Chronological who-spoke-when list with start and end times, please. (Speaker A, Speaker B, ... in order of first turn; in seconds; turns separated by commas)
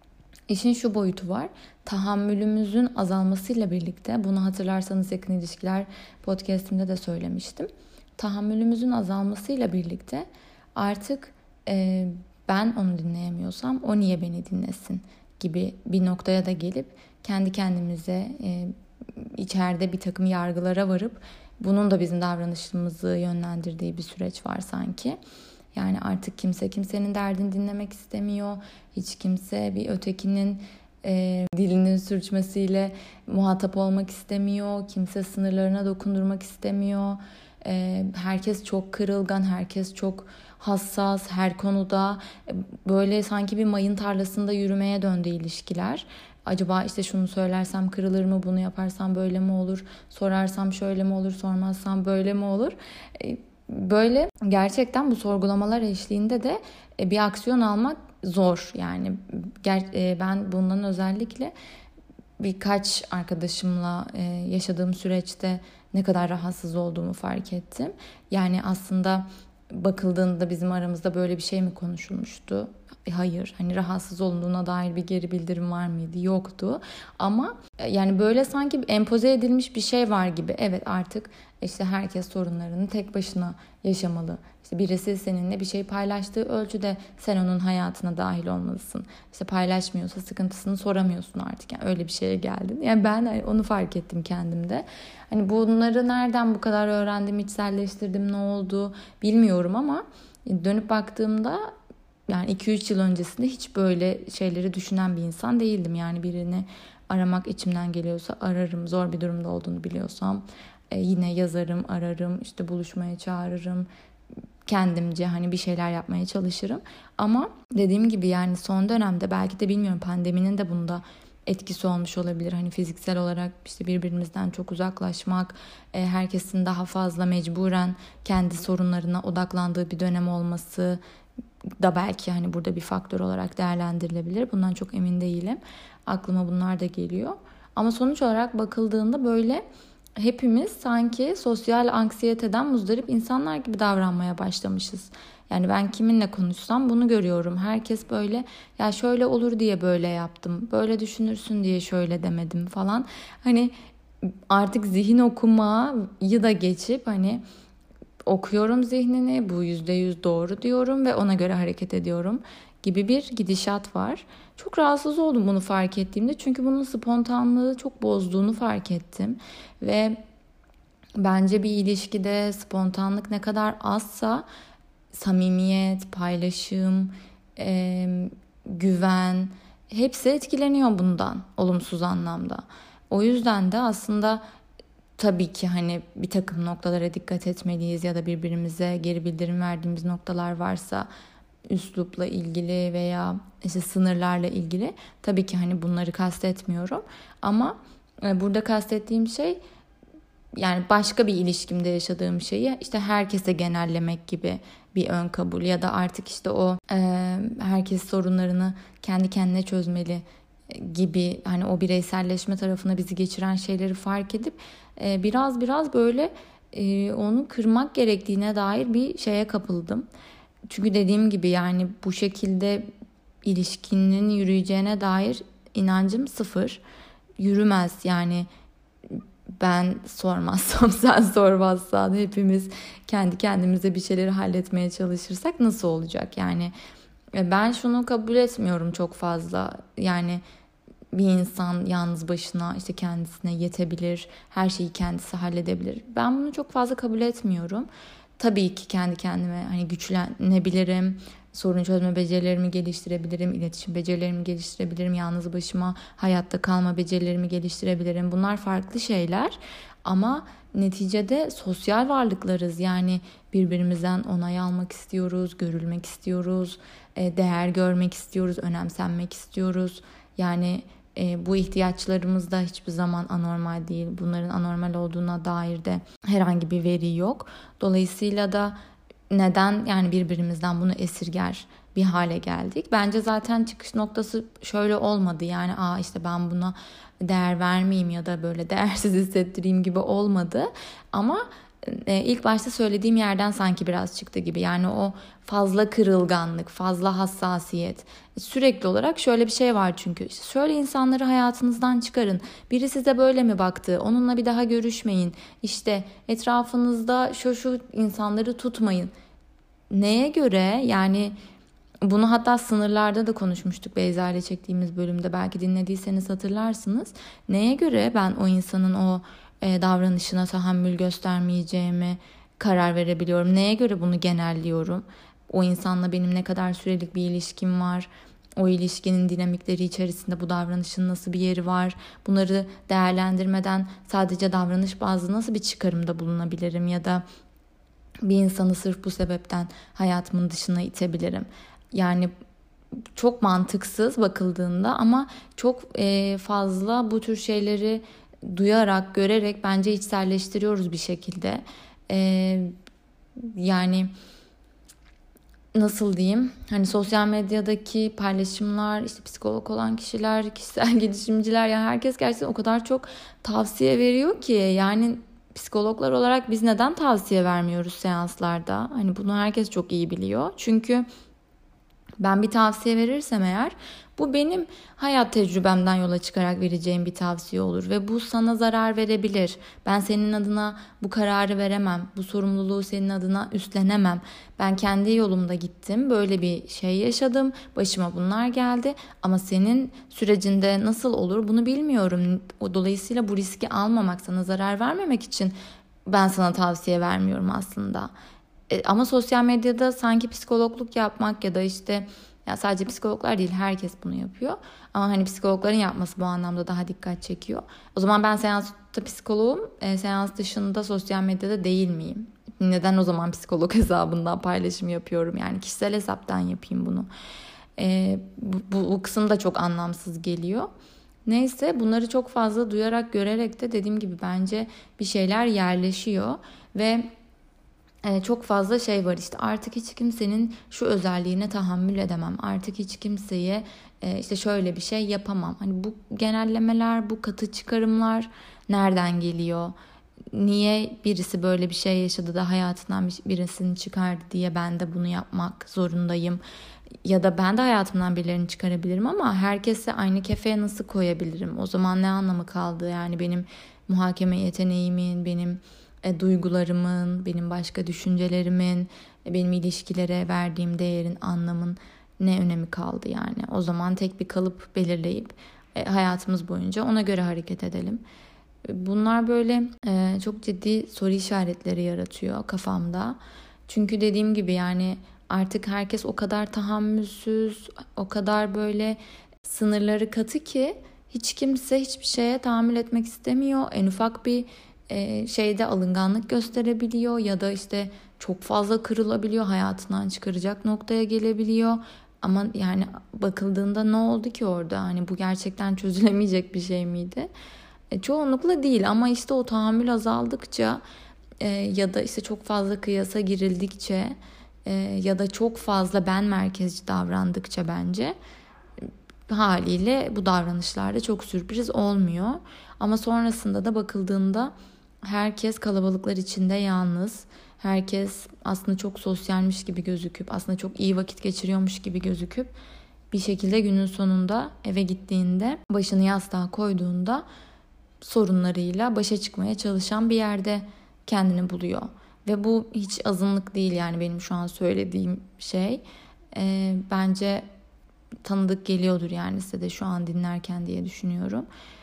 Speaker A: 0.5-25.2, Speaker A: 25.7-61.5, Speaker A: 62.4-101.7, Speaker A: 102.3-113.9, Speaker A: 114.7-131.0, Speaker A: 131.8-139.6, Speaker A: 140.2-153.7, Speaker A: 154.3-157.4, Speaker A: 158.3-170.2, Speaker A: 171.2-174.4, Speaker A: 175.1-184.4, Speaker A: 185.2-191.1, Speaker A: 191.7-199.6, Speaker A: 200.6-220.1, Speaker A: 220.7-222.9, Speaker A: 223.4-226.8, Speaker A: 227.4-228.5, Speaker A: 229.1-236.7, Speaker A: 237.3-240.4, Speaker A: 241.1-247.9, Speaker A: 248.4-278.8, Speaker A: 279.3-309.1, Speaker A: 309.9-311.4, Speaker A: 312.0-337.2, Speaker A: 338.2-342.3, Speaker A: 343.2-352.7, Speaker A: 353.4-354.1, Speaker A: 355.7-371.1, Speaker A: 372.2-395.5, Speaker A: 396.1-398.1, Speaker A: 398.7-417.1, Speaker A: 417.8-420.7, Speaker A: 421.3-427.1, Speaker A: 428.0-439.8, Speaker A: 440.3-446.4, Speaker A: 447.1-468.0, Speaker A: 468.7-473.2, Speaker A: 473.7-497.3, Speaker A: 497.9-500.8, Speaker A: 501.4-504.1, Speaker A: 504.7-508.2, Speaker A: 508.8-514.5, Speaker A: 515.0-522.5, Speaker A: 523.1-527.2, Speaker A: 528.0-537.5, Speaker A: 538.2-541.5